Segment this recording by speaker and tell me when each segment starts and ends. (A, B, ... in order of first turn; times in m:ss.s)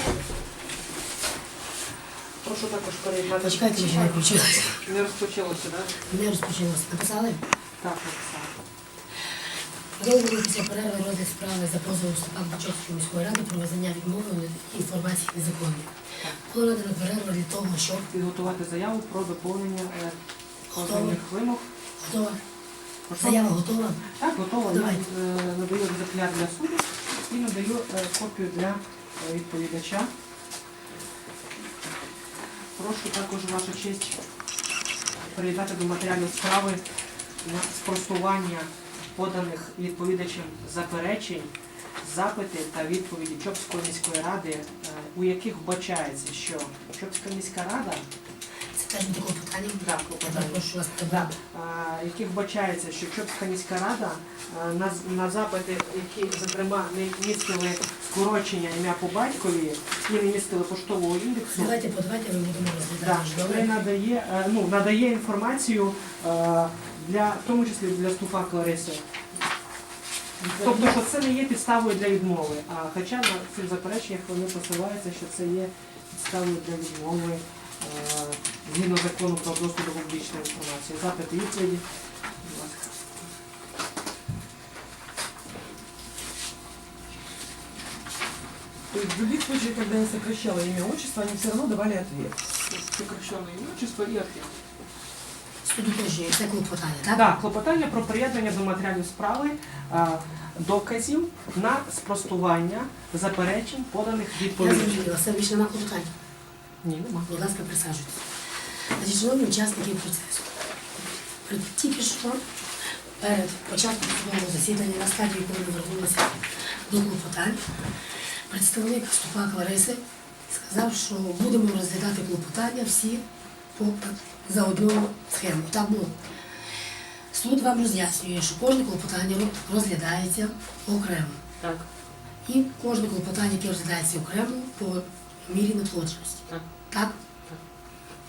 0:02.4-0:06.1 A
0:03.4-0:04.8 B
0:06.0-0:07.4 B
0:07.8-0:08.5 A
0:10.0-0:18.1 B
0:18.1-0:20.2 A
0:20.7-0:21.2 B
0:20.7-0:21.6 A
0:22.0-0:22.4 B
0:23.1-0:30.1 A
0:23.2-0:24.0 B
0:24.7-0:25.0 B
0:32.8-0:34.2 A
0:35.3-0:36.8 A
0:37.4-0:48.1 A
0:48.7-0:51.3 B
0:49.8-1:01.8 A
1:01.5-1:03.8 B
1:03.0-1:09.0 A
1:10.5-1:21.8 A
1:22.4-1:23.3 A
1:28.9-1:32.4 C
1:32.7-1:34.5 A
1:35.6-1:37.2 B
1:37.1-1:45.1 A
1:44.4-1:46.1 B
1:46.8-1:47.3 A
1:47.3-1:50.6 B
1:51.4-1:52.4 B
1:53.2-1:57.7 B
1:58.5-2:03.2 B
2:03.8-2:06.2 B
2:07.3-2:11.4 B
2:12.5-2:17.2 B